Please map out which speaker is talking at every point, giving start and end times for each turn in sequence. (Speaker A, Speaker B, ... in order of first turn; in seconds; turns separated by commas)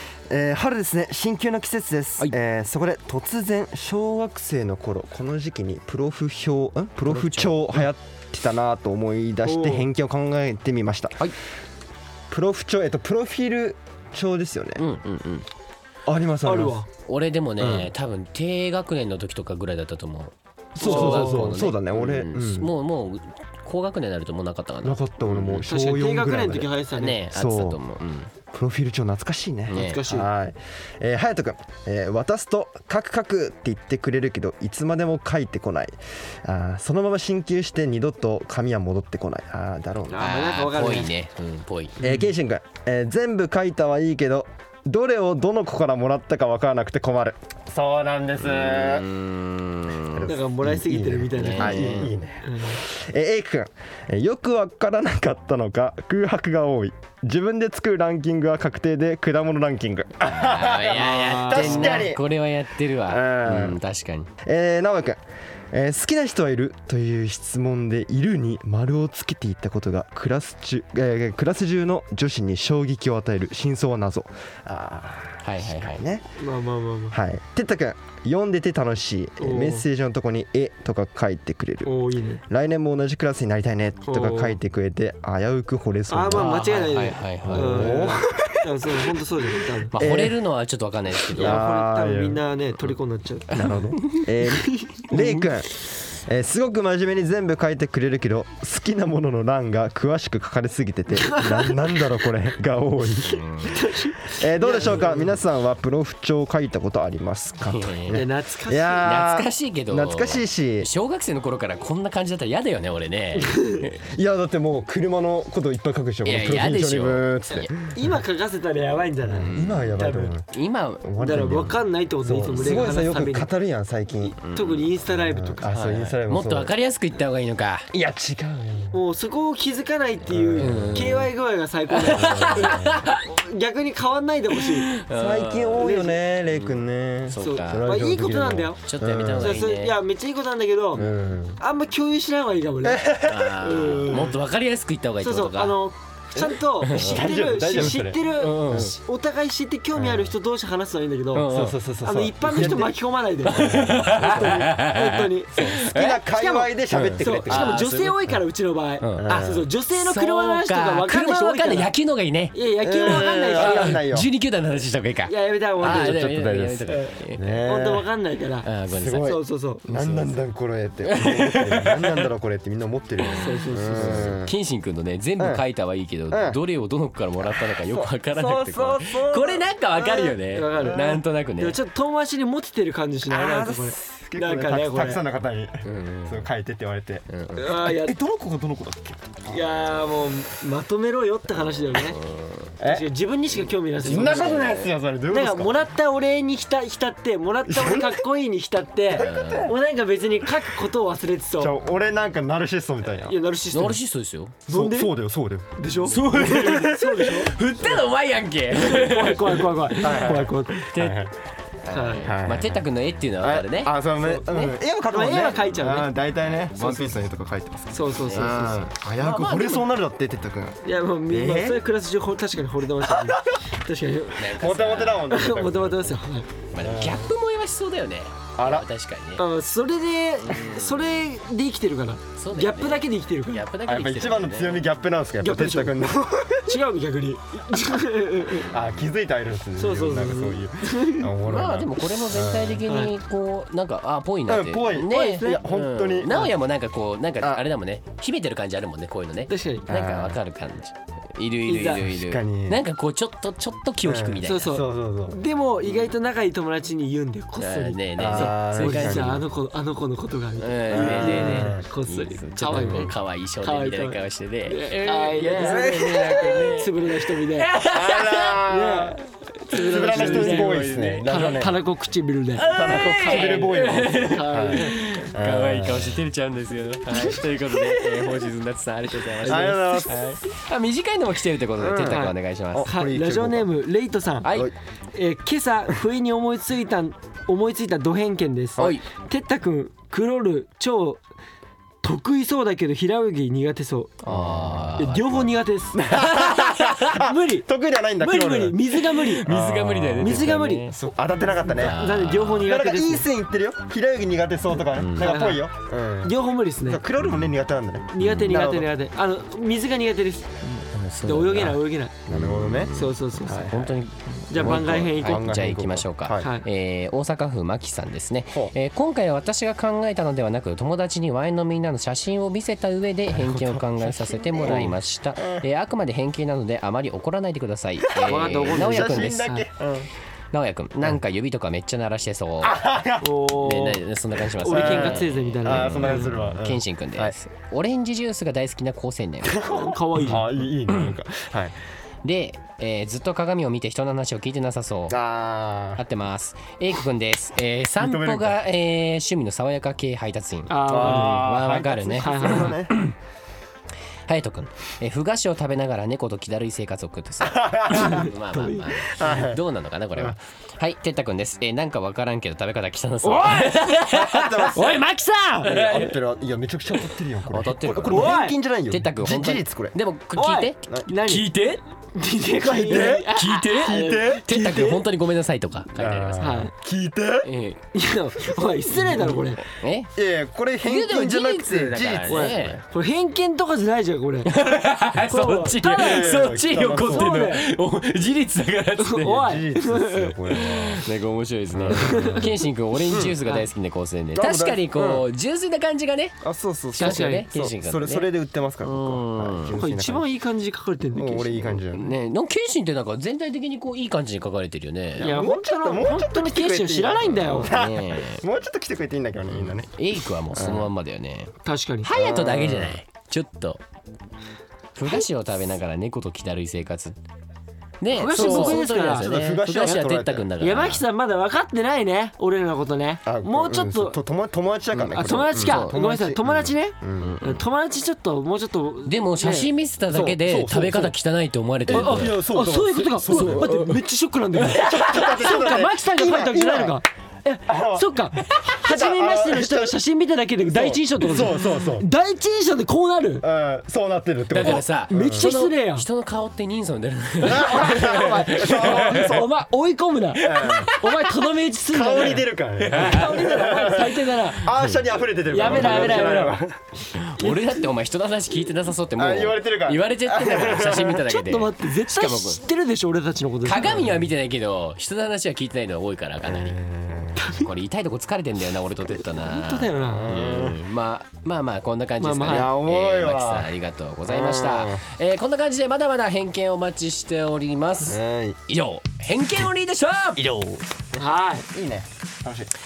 Speaker A: 0.3-11.3, Speaker B: 7.0-7.8, Speaker C: 9.4-9.9, Speaker A: 12.3-14.8, Speaker B: 14.8-15.4, Speaker A: 16.1-16.8, Speaker C: 16.4-16.9, Speaker B: 17.1-25.7, Speaker A: 17.6-17.9, Speaker A: 20.8-22.7, Speaker C: 20.8-21.5, Speaker A: 24.8-27.8, Speaker C: 25.7-27.2, Speaker B: 26.9-28.3, Speaker A: 28.5-40.3, Speaker B: 29.7-30.0, Speaker C: 29.7-30.3, Speaker C: 40.1-41.1, Speaker B: 40.2-42.0, Speaker A: 42.0-49.1, Speaker B: 48.4-50.3, Speaker A: 50.1-62.2, Speaker C: 50.2-52.8, Speaker B: 51.4-52.1, Speaker B: 60.3-64.3, Speaker C: 61.0-62.0, Speaker A: 63.0-63.8, Speaker A: 64.4-76.2, Speaker B: 75.4-76.0, Speaker C: 76.4-77.2, Speaker A: 77.1-86.6, Speaker C: 79.4-79.8, Speaker C: 81.8-82.4, Speaker C: 84.0-84.5, Speaker C: 86.1-89.9, Speaker B: 86.3-88.1, Speaker A: 87.4-88.7, Speaker B: 89.9-91.6, Speaker A: 90.0-90.4, Speaker A: 91.3-92.4, Speaker C: 91.3-93.8, Speaker A: 93.5-103.6, Speaker B: 93.6-94.3, Speaker C: 94.5-95.0, Speaker B: 95.1-95.5, Speaker C: 101.2-101.7, Speaker B: 103.3-103.8, Speaker C: 103.7-105.4, Speaker A: 104.2-110.9, Speaker B: 107.7-108.2, Speaker C: 108.1-109.1, Speaker B: 109.0-114.0, Speaker C: 113.4-113.8, Speaker A: 114.1-117.7, Speaker B: 116.2-117.7, Speaker C: 117.5-120.3, Speaker A: 119.3-120.5, Speaker B: 119.4-120.0, Speaker B: 120.5-121.6, Speaker A: 121.0-124.4, Speaker C: 121.2-123.5, Speaker C: 124.3-125.7, Speaker B: 124.4-124.9, Speaker A: 125.1-126.7, Speaker B: 125.7-127.9, Speaker A: 127.9-129.0, Speaker C: 128.9-134.9, Speaker A: 130.3-131.2, Speaker B: 130.6-131.3, Speaker B: 131.9-133.2, Speaker A: 132.1-133.0, Speaker B: 134.7-135.9, Speaker A: 135.1-139.6, Speaker C: 135.8-136.2, Speaker B: 136.5-137.9, Speaker C: 137.4-138.8, Speaker B: 138.9-140.0, Speaker C: 139.3-144.4, Speaker A: 140.9-141.6, Speaker A: 142.8-143.6, Speaker B: 143.2-145.8, Speaker C: 145.2-151.5, Speaker A: 146.4-148.2, Speaker B: 146.8-147.2, Speaker B: 147.8-148.9, Speaker A: 149.9-150.3, Speaker B: 151.3-151.8, Speaker A: 151.5-154.7, Speaker C: 152.0-161.9, Speaker B: 153.5-156.2, Speaker A: 155.5-157.9, Speaker B: 156.9-158.2, Speaker B: 159.0-167.6, Speaker A: 159.2-159.7, Speaker C: 162.5-164.0, Speaker A: 162.8-164.3, Speaker C: 165.3-166.3, Speaker A: 165.8-168.1, Speaker C: 166.9-168.7, Speaker B: 168.6-169.4, Speaker A: 168.9-174.5, Speaker C: 169.2-169.8, Speaker B: 169.9-170.3, Speaker B: 171.0-172.3, Speaker B: 173.2-181.8, Speaker C: 173.3-174.4, Speaker A: 175.4-175.6, Speaker A: 176.3-176.6, Speaker A: 177.4-178.1, Speaker C: 178.4-179.6, Speaker A: 180.0-181.2, Speaker C: 180.4-185.2, Speaker A: 183.3-189.6, Speaker B: 185.8-186.5, Speaker B: 187.3-187.7, Speaker C: 187.5-188.2, Speaker C: 189.5-192.2, Speaker B: 191.9-192.7, Speaker A: 192.8-193.1, Speaker C: 192.8-201.8, Speaker A: 194.0-195.8, Speaker B: 194.1-194.9, Speaker A: 197.7-198.2, Speaker B: 199.1-199.7, Speaker A: 199.2-199.7, Speaker A: 201.6-203.4, Speaker C: 203.2-204.0, Speaker B: 203.7-204.6, Speaker C: 204.7-205.1, Speaker A: 204.7-207.3, Speaker C: 205.8-207.6, Speaker B: 206.1-210.3, Speaker C: 208.7-210.9, Speaker A: 210.0-211.3, Speaker B: 210.9-211.3, Speaker B: 211.9-214.7, Speaker C: 211.9-212.3, Speaker A: 212.2-212.8, Speaker A: 213.4-220.8, Speaker C: 215.1-216.1, Speaker C: 217.9-218.8, Speaker B: 218.2-219.8, Speaker C: 220.8-224.6, Speaker A: 221.3-221.8, Speaker A: 223.0-223.6, Speaker B: 224.4-225.3, Speaker A: 224.5-226.2, Speaker C: 225.2-226.5, Speaker B: 226.7-229.4, Speaker A: 226.8-227.3, Speaker A: 228.6-228.9, Speaker C: 229.4-233.7, Speaker B: 230.4-231.1, Speaker B: 232.4-234.9, Speaker A: 233.8-236.8, Speaker C: 235.4-238.7, Speaker A: 238.7-242.9, Speaker C: 239.8-241.3, Speaker B: 241.4-254.8, Speaker C: 242.9-243.1, Speaker A: 244.5-246.5, Speaker C: 245.0-245.6, Speaker C: 249.5-249.9, Speaker A: 249.9-250.4, Speaker C: 251.7-252.1, Speaker A: 252.0-252.8, Speaker A: 254.0-255.4, Speaker C: 254.4-267.7, Speaker B: 257.6-259.4, Speaker A: 258.2-259.4, Speaker B: 260.6-268.7, Speaker A: 260.9-261.9, Speaker A: 262.7-263.1, Speaker A: 265.4-266.8, Speaker A: 267.8-269.2, Speaker C: 268.6-275.1, Speaker A: 269.7-271.8, Speaker B: 269.7-271.6, Speaker B: 272.6-282.9, Speaker A: 272.6-276.2, Speaker C: 279.4-280.1, Speaker A: 279.4-280.4, Speaker A: 281.8-283.7, Speaker C: 281.9-284.5, Speaker B: 284.4-284.7, Speaker A: 284.5-284.7, Speaker C: 285.1-291.2, Speaker B: 288.8-289.0, Speaker C: 292.0-294.2, Speaker B: 294.2-295.5, Speaker A: 294.2-294.9, Speaker C: 295.0-296.2, Speaker A: 295.9-302.0, Speaker B: 296.1-297.2, Speaker C: 297.1-297.7, Speaker C: 298.2-299.5, Speaker B: 299.1-301.0, Speaker C: 300.2-301.1, Speaker C: 301.6-303.3, Speaker B: 301.7-302.7, Speaker A: 302.6-308.9, Speaker B: 304.9-305.4, Speaker C: 305.1-305.6, Speaker C: 306.2-307.0, Speaker C: 308.1-312.2, Speaker B: 308.2-308.6, Speaker B: 310.8-329.6, Speaker A: 312.3-312.9, Speaker C: 312.9-313.9, Speaker A: 313.4-313.9, Speaker C: 314.5-315.4, Speaker A: 314.6-316.5, Speaker C: 316.4-316.6, Speaker A: 323.3-325.6, Speaker C: 328.2-329.7, Speaker A: 328.2-330.1, Speaker B: 330.5-332.8, Speaker A: 332.6-333.3, Speaker C: 333.2-334.0, Speaker B: 333.5-339.8, Speaker C: 334.6-336.3, Speaker A: 334.6-337.4, Speaker A: 339.5-341.8, Speaker C: 339.6-340.4, Speaker B: 342.2-345.2, Speaker A: 345.1-346.0, Speaker B: 346.0-353.1, Speaker A: 348.0-348.6, Speaker C: 350.7-351.5, Speaker A: 350.9-353.0, Speaker C: 352.2-352.8, Speaker B: 354.3-364.9, Speaker A: 357.4-358.3, Speaker C: 357.9-358.9, Speaker A: 359.0-359.6, Speaker C: 363.2-363.9, Speaker A: 364.1-364.9, Speaker C: 364.7-365.8, Speaker B: 365.6-366.1, Speaker A: 365.6-369.9, Speaker B: 367.5-371.8, Speaker C: 368.1-368.6, Speaker C: 370.4-371.5, Speaker C: 372.1-374.4, Speaker A: 372.6-375.0, Speaker B: 372.9-376.6, Speaker A: 375.9-377.5, Speaker C: 376.4-376.7, Speaker B: 377.4-377.8, Speaker C: 377.9-379.6, Speaker A: 379.0-379.3, Speaker B: 379.7-380.1, Speaker A: 380.1-382.8, Speaker B: 380.8-382.8, Speaker C: 382.3-384.5, Speaker B: 384.4-389.5, Speaker C: 385.2-387.6, Speaker A: 385.9-387.3, Speaker C: 389.0-390.3, Speaker A: 389.2-391.1, Speaker B: 390.5-396.4, Speaker A: 391.7-393.4, Speaker C: 391.9-392.6, Speaker C: 393.4-393.6, Speaker A: 394.4-395.2, Speaker A: 396.4-400.2, Speaker B: 396.9-398.2, Speaker C: 397.0-397.4, Speaker B: 398.8-399.8, Speaker C: 399.8-401.8, Speaker A: 401.1-402.1, Speaker B: 401.9-405.3, Speaker A: 405.2-409.9, Speaker C: 405.2-407.8, Speaker B: 407.2-408.4, Speaker B: 409.5-411.5, Speaker A: 410.5-410.9, Speaker C: 411.6-412.1, Speaker B: 412.0-413.8, Speaker A: 412.1-413.0, Speaker B: 414.9-417.1, Speaker B: 418.0-421.0, Speaker C: 418.1-419.3, Speaker A: 418.3-420.5, Speaker C: 420.6-424.2, Speaker A: 423.2-427.4, Speaker B: 424.9-425.9, Speaker C: 425.1-429.7, Speaker B: 427.2-427.6, Speaker B: 429.0-432.4, Speaker A: 430.1-431.1, Speaker A: 431.9-433.9, Speaker C: 431.9-443.4, Speaker B: 433.2-434.0, Speaker B: 434.6-435.5, Speaker A: 434.7-437.0, Speaker A: 437.7-440.0, Speaker A: 440.7-442.1, Speaker A: 443.4-445.5, Speaker B: 444.5-449.4, Speaker C: 444.6-446.0, Speaker C: 447.4-454.7, Speaker A: 447.4-449.5, Speaker A: 450.4-450.9, Speaker B: 450.6-451.1, Speaker A: 451.9-456.8, Speaker B: 452.9-453.2, Speaker B: 454.7-455.0, Speaker C: 455.5-456.6, Speaker B: 455.6-456.4, Speaker B: 457.1-462.6, Speaker A: 459.1-461.3, Speaker C: 460.9-464.1, Speaker B: 463.6-466.8, Speaker A: 463.8-464.2, Speaker A: 466.4-467.5, Speaker C: 467.4-467.7, Speaker B: 467.5-480.6, Speaker C: 469.3-470.4, Speaker A: 470.1-470.8, Speaker C: 472.2-472.7, Speaker A: 472.4-473.7, Speaker A: 474.2-475.0, Speaker A: 478.1-478.6, Speaker A: 480.4-480.8, Speaker C: 481.1-481.7, Speaker A: 481.7-482.7